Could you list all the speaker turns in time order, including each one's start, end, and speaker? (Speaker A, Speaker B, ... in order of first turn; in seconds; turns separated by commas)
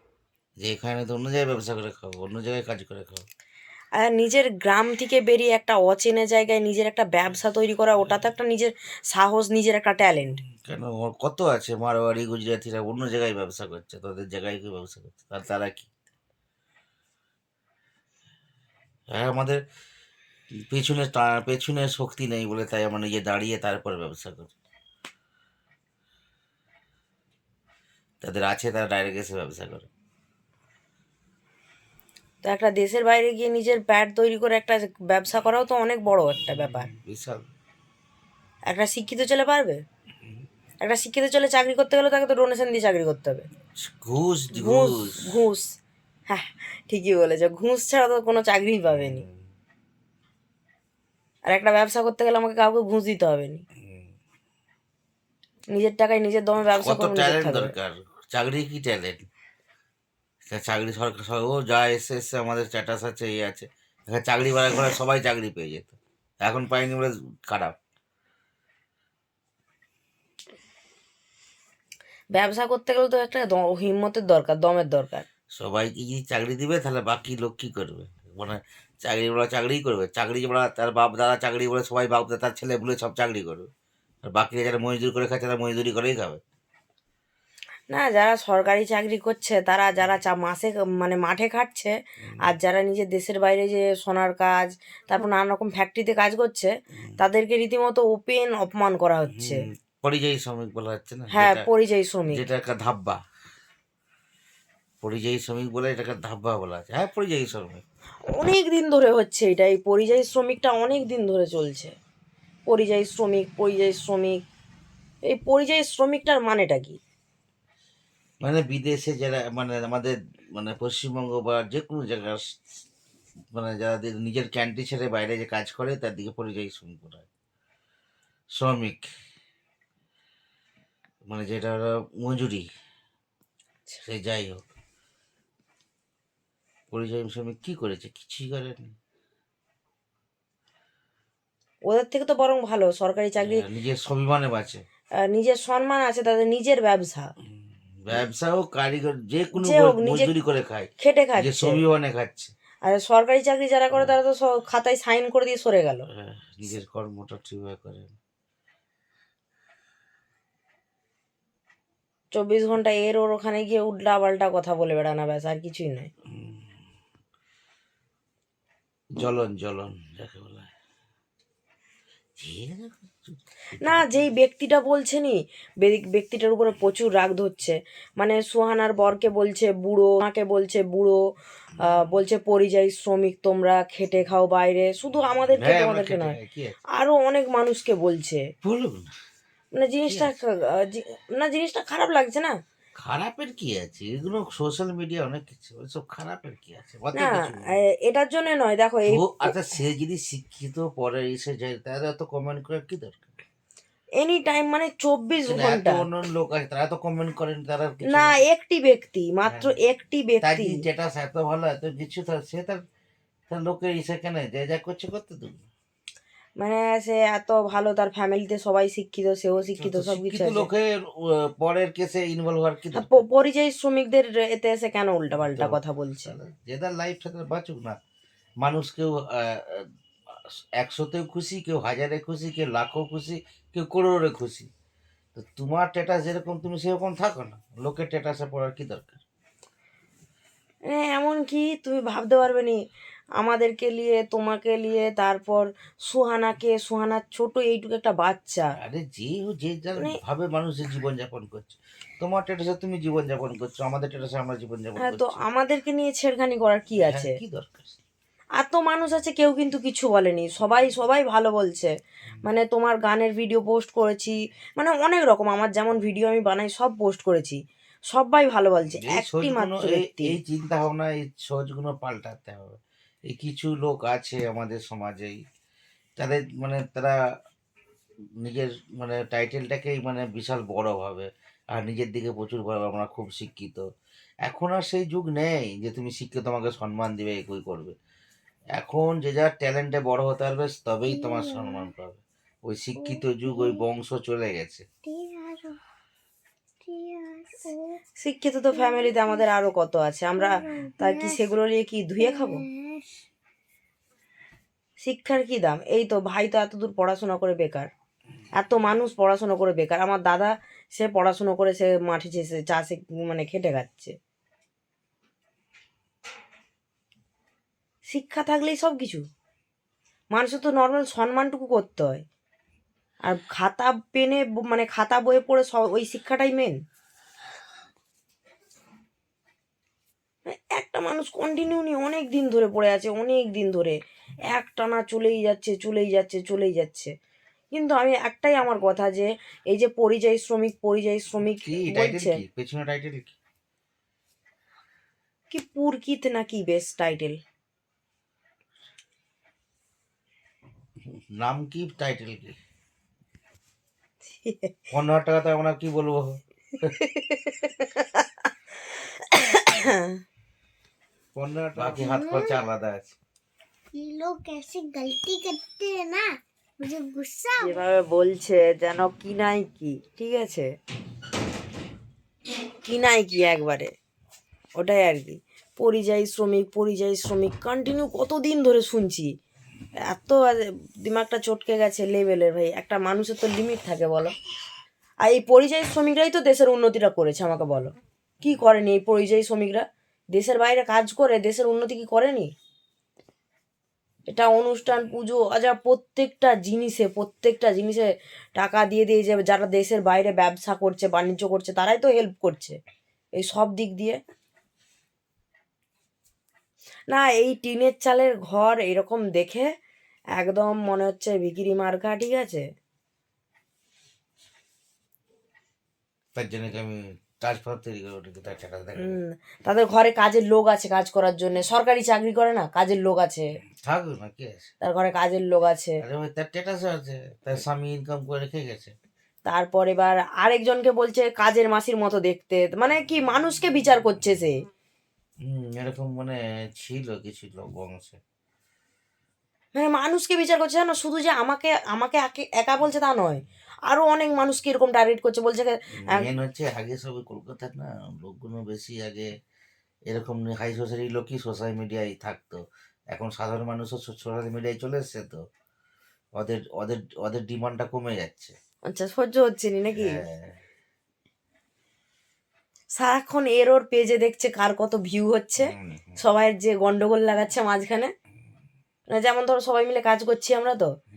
Speaker A: 0.6-3.2, Speaker B: 4.0-10.4, Speaker A: 10.6-15.9, Speaker A: 19.1-19.6, Speaker A: 20.5-24.5, Speaker A: 28.2-29.9, Speaker B: 32.4-36.9, Speaker A: 36.4-37.5, Speaker B: 38.7-39.8, Speaker B: 40.8-43.5, Speaker A: 43.8-45.4, Speaker B: 44.5-45.7, Speaker B: 46.3-49.2, Speaker A: 48.9-49.4, Speaker B: 51.5-53.6, Speaker B: 55.7-57.7, Speaker A: 56.8-59.2, Speaker A: 60.5-67.8, Speaker B: 72.3-75.3, Speaker A: 75.5-83.7, Speaker A: 84.2-86.4, Speaker B: 87.9-99.6, Speaker A: 99.3-101.7, Speaker B: 101.3-102.4, Speaker A: 102.3-103.2, Speaker A: 105.0-107.8, Speaker B: 108.3-111.9, Speaker B: 112.7-114.4, Speaker B: 115.2-117.0, Speaker A: 118.4-122.8, Speaker A: 123.5-127.3, Speaker A: 128.5-129.1, Speaker A: 131.2-132.7, Speaker A: 134.0-134.7, Speaker A: 136.9-138.9, Speaker B: 141.9-143.6, Speaker A: 143.4-144.8, Speaker B: 145.2-147.3, Speaker A: 148.0-152.5, Speaker B: 149.5-150.3, Speaker B: 151.0-151.8, Speaker B: 152.8-156.1, Speaker A: 156.1-158.1, Speaker B: 162.3-166.1, Speaker A: 166.3-166.6, Speaker A: 169.1-170.7, Speaker A: 172.4-174.2, Speaker B: 173.8-181.2, Speaker B: 181.8-186.4, Speaker A: 185.6-186.8, Speaker B: 186.9-188.5, Speaker A: 188.6-189.1, Speaker B: 189.7-192.6, Speaker A: 190.1-190.4, Speaker A: 192.9-197.8, Speaker B: 197.1-199.5, Speaker A: 199.1-203.3, Speaker B: 204.2-206.1, Speaker A: 205.5-208.4, Speaker B: 208.1-210.8, Speaker A: 209.4-209.8, Speaker A: 210.4-212.8, Speaker A: 213.5-215.6, Speaker B: 216.6-220.7, Speaker A: 219.8-223.2, Speaker B: 222.9-226.3, Speaker A: 225.3-228.0, Speaker A: 228.6-234.7, Speaker A: 235.3-239.2, Speaker B: 240.9-242.8, Speaker B: 243.4-248.7, Speaker A: 248.8-255.4, Speaker B: 255.0-257.4, Speaker A: 257.0-258.0, Speaker B: 258.6-261.9, Speaker B: 262.4-270.4, Speaker A: 268.9-275.4, Speaker A: 276.2-277.2, Speaker A: 278.4-283.8, Speaker A: 284.4-287.9, Speaker A: 288.7-294.9, Speaker C: 291.1-291.9, Speaker C: 293.0-293.8, Speaker C: 295.0-295.8, Speaker C: 296.8-298.0, Speaker B: 298.2-302.6, Speaker C: 298.7-299.5, Speaker C: 300.4-301.4, Speaker C: 302.2-303.2, Speaker B: 305.0-307.9, Speaker B: 308.6-314.1, Speaker B: 318.1-319.2, Speaker B: 320.3-322.2, Speaker B: 323.2-326.8, Speaker B: 330.5-334.0, Speaker B: 334.5-337.1, Speaker B: 337.7-342.4, Speaker A: 341.6-343.3, Speaker B: 345.5-347.4, Speaker A: 351.3-352.6, Speaker B: 354.2-354.8, Speaker A: 354.9-356.9, Speaker B: 356.8-360.2, Speaker A: 361.3-363.1, Speaker C: 362.0-362.6, Speaker C: 363.9-367.7, Speaker B: 367.6-370.7, Speaker B: 372.9-373.9, Speaker B: 374.8-379.3, Speaker B: 380.1-384.3, Speaker B: 385.2-392.5, Speaker B: 394.3-402.8, Speaker B: 403.4-404.2, Speaker B: 407.1-409.7, Speaker B: 410.4-412.6, Speaker A: 416.3-419.2, Speaker B: 419.0-423.5, Speaker A: 423.8-424.7, Speaker B: 424.8-426.0, Speaker A: 426.0-428.9, Speaker B: 429.4-434.6, Speaker A: 435.4-438.2, Speaker B: 439.7-446.3, Speaker A: 446.0-449.3, Speaker A: 450.1-455.4, Speaker A: 456.4-458.5, Speaker B: 458.9-460.2, Speaker A: 459.9-460.6, Speaker B: 463.0-468.1, Speaker A: 465.6-466.2, Speaker B: 469.1-470.9